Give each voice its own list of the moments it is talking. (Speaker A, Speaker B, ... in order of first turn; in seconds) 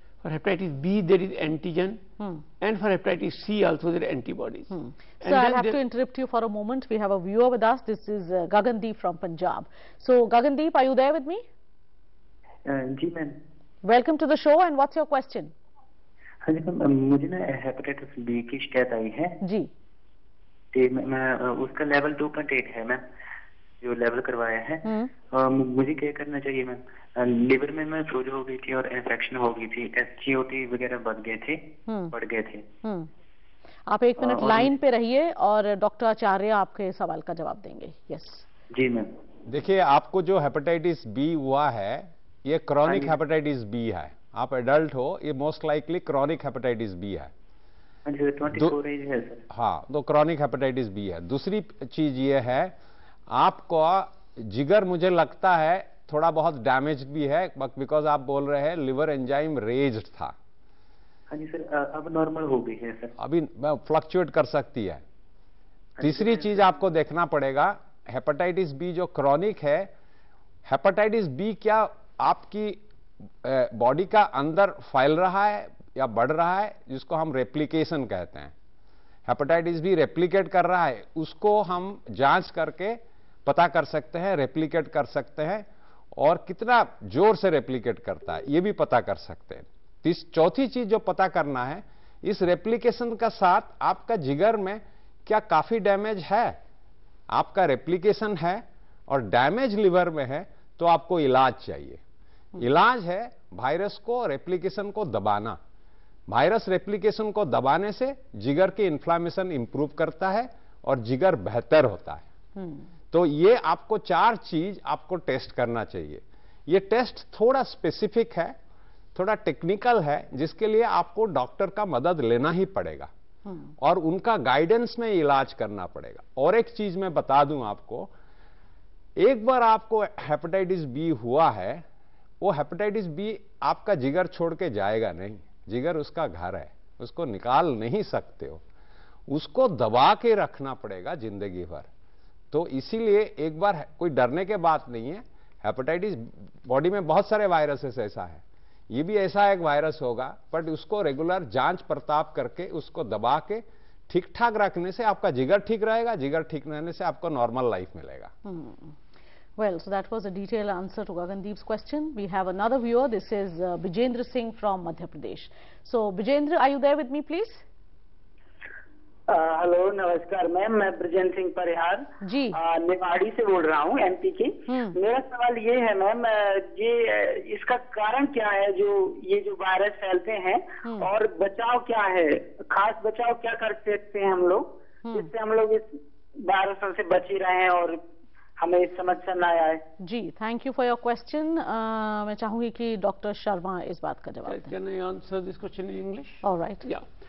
Speaker A: 0.2-2.0, 2.6-5.8, 194.4-197.1
Speaker B: 4.7-11.4, 13.8-15.5, 19.4-19.7, 31.9-32.1, 32.8-33.1, 33.9-38.4, 112.6-112.8, 123.5-123.7, 158.4-158.9, 159.6-167.6, 172.2-172.6, 174.7-175.0, 180.8-181.1, 185.0-185.3, 190.0-194.7, 196.4-196.9
Speaker C: 12.7-13.4, 16.4-19.4, 20.7-23.1, 23.8-32.6, 34.2-34.7, 38.7-39.1, 42.9-43.1, 48.0-49.4, 61.3-63.1, 66.0-66.5
Speaker D: 39.5-47.3, 49.5-52.8, 53.3-60.4, 63.2-65.0, 66.0-69.9, 70.6-72.8, 73.4-78.5, 79.2-96.6, 97.3-102.0, 102.6-105.6, 106.3-112.2, 113.1-118.5, 119.1-123.1, 123.8-128.1, 129.2-131.8, 132.4-138.6, 139.3-141.9, 142.5-158.3
Speaker E: 169.3-185.9, 186.4-188.0, 188.6-189.8